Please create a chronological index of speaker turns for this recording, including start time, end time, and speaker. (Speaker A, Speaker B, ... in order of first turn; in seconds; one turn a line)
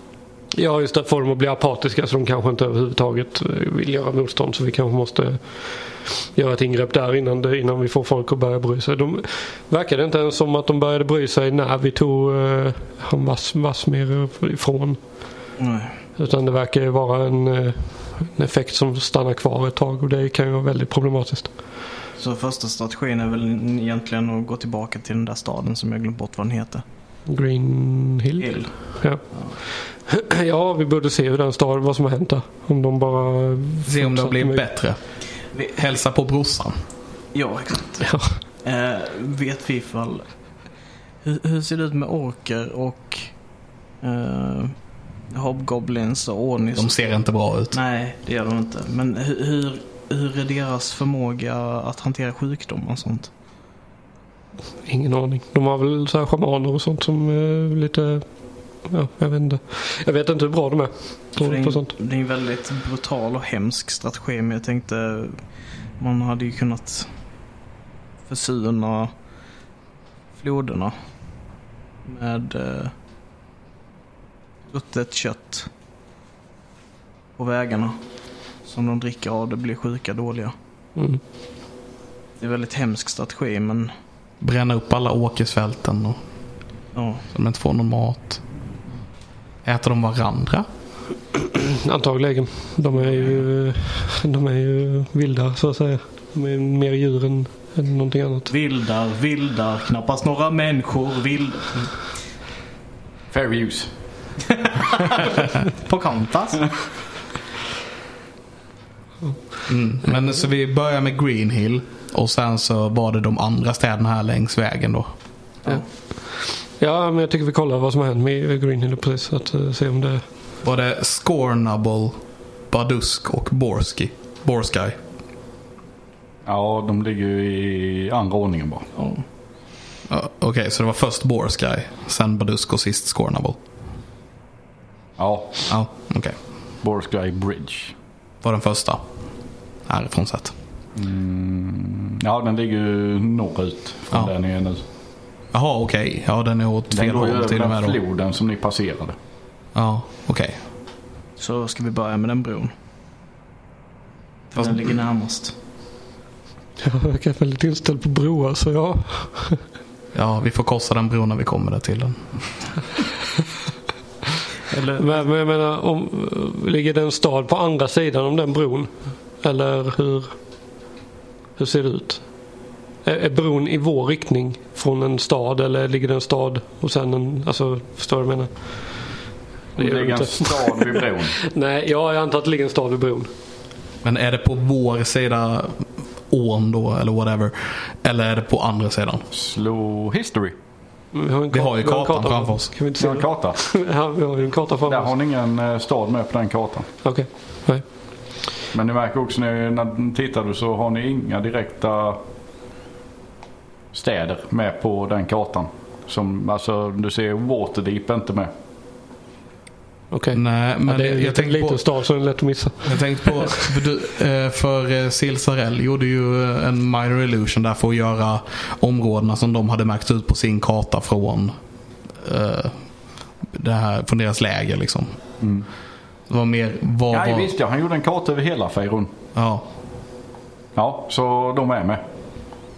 Speaker A: 0.5-15.5
Speaker B: 15.6-16.0
Speaker A: 16.1-21.8
Speaker B: 22.2-26.8
Speaker A: 27.3-34.6
Speaker B: 28.4-29.6
Speaker C: 33.9-37.0
Speaker B: 35.5-35.8
Speaker B: 37.3-53.3
Speaker A: 38.1-38.4
Speaker C: 46.8-47.8
Speaker A: 54.8-61.9
Speaker B: 61.4-67.5
Speaker B: 68.2-69.1
Speaker B: 70.3-72.9
Speaker B: 74.7-75.7
Speaker B: 77.3-80.5
Speaker A: 81.0-81.2
Speaker B: 82.4-83.9
Speaker C: 84.4-88.5
Speaker B: 86.9-87.2
Speaker C: 89.6-90.7
Speaker A: 91.8-98.5
Speaker B: 92.9-93.5
Speaker B: 98.5-102.2
Speaker D: 103.3-104.3
Speaker B: 104.7-106.9
Speaker A: 109.2-110.4
Speaker C: 109.7-115.6
Speaker B: 115.6-115.9
Speaker A: 115.7-120.2
Speaker C: 120.6-125.0
Speaker D: 126.4-128.9
Speaker B: 128.9-129.2
Speaker C: 130.1-133.7
Speaker D: 135.2-136.1
Speaker C: 135.7-136.7
Speaker D: 136.8-137.9
Speaker C: 138.4-140.6
Speaker D: 140.9-144.8
Speaker C: 145.5-148.0
Speaker D: 146.9-149.2
Speaker C: 149.7-150.6
Speaker B: 151.3-152.7
Speaker B: 154.5-155.5
Speaker A: 156.8-159.6
Speaker C: 160.1-162.8
Speaker B: 164.7-165.3
Speaker A: 165.0-170.6
Speaker A: 171.6-179.2
Speaker D: 179.7-181.4
Speaker A: 179.8-183.3
Speaker C: 184.0-189.2
Speaker D: 189.3-190.6
Speaker A: 191.1-195.1
Speaker C: 191.5-192.8
Speaker D: 193.0-193.6
Speaker D: 194.8-196.9
Speaker A: 197.0-198.4
Speaker D: 198.7-202.2
Speaker D: 203.9-208.5
Speaker A: 210.1-213.5
Speaker C: 210.3-212.0
Speaker C: 212.8-225.2
Speaker D: 225.4-225.7
Speaker C: 226.3-227.5
Speaker D: 227.1-229.1
Speaker C: 229.3-229.6
Speaker D: 230.7-232.0